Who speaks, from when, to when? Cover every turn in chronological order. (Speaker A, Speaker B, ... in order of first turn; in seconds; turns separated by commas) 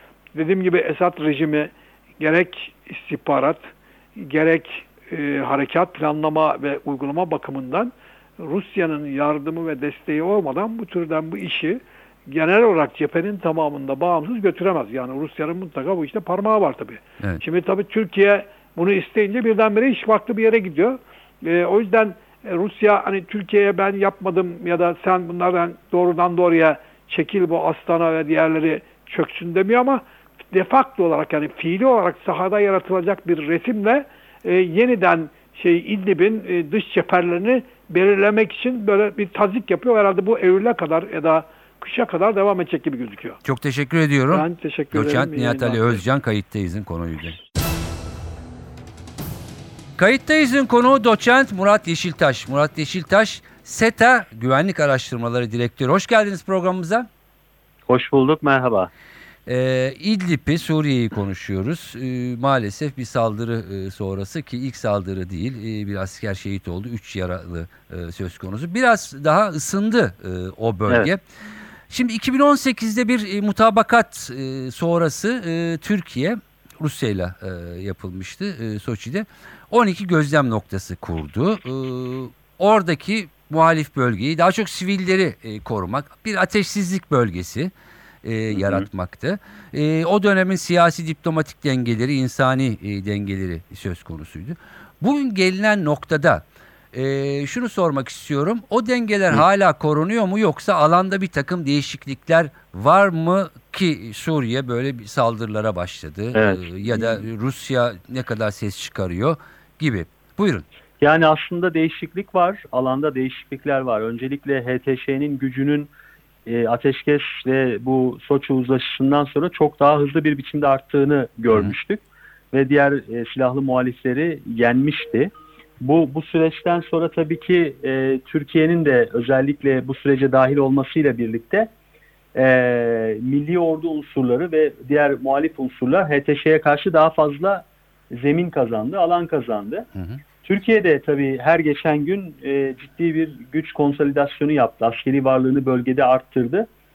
Speaker A: 0.3-43.4, Speaker B: 43.5-47.4, Speaker A: 44.3-46.0, Speaker B: 50.0-57.1, Speaker C: 57.9-58.9, Speaker B: 59.5-71.2, Speaker B: 71.9-87.7, Speaker B: 88.2-110.7, Speaker C: 88.5-88.9, Speaker C: 106.3-107.2, Speaker C: 111.0-115.9, Speaker C: 116.5-131.7, Speaker C: 132.3-139.9, Speaker C: 140.4-146.7